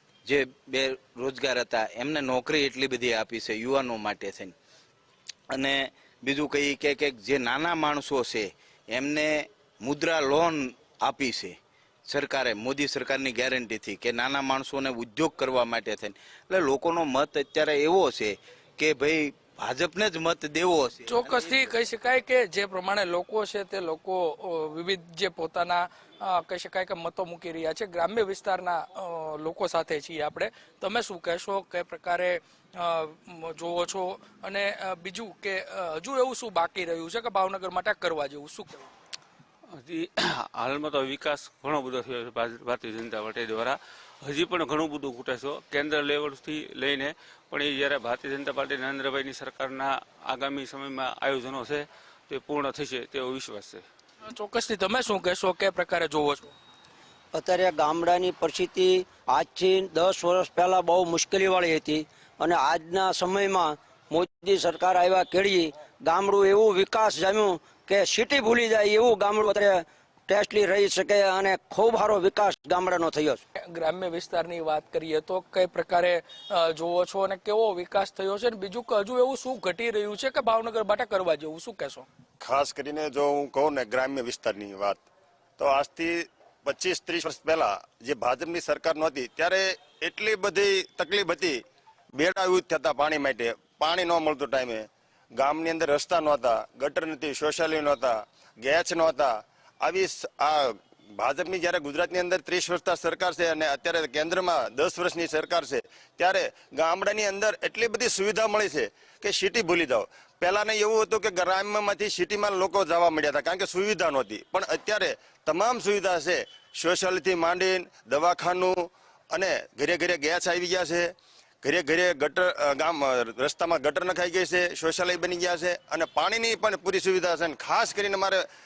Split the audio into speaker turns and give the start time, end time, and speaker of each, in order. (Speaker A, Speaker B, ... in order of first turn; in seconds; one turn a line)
Speaker A: 0.2-4.5
Speaker A: 5.5-21.7
Speaker B: 21.0-38.9
Speaker C: 39.7-53.9
Speaker B: 54.2-56.5
Speaker D: 57.3-73.4
Speaker B: 73.7-82.0
Speaker E: 82.4-85.0
Speaker E: 85.6-91.6
Speaker E: 92.1-128.4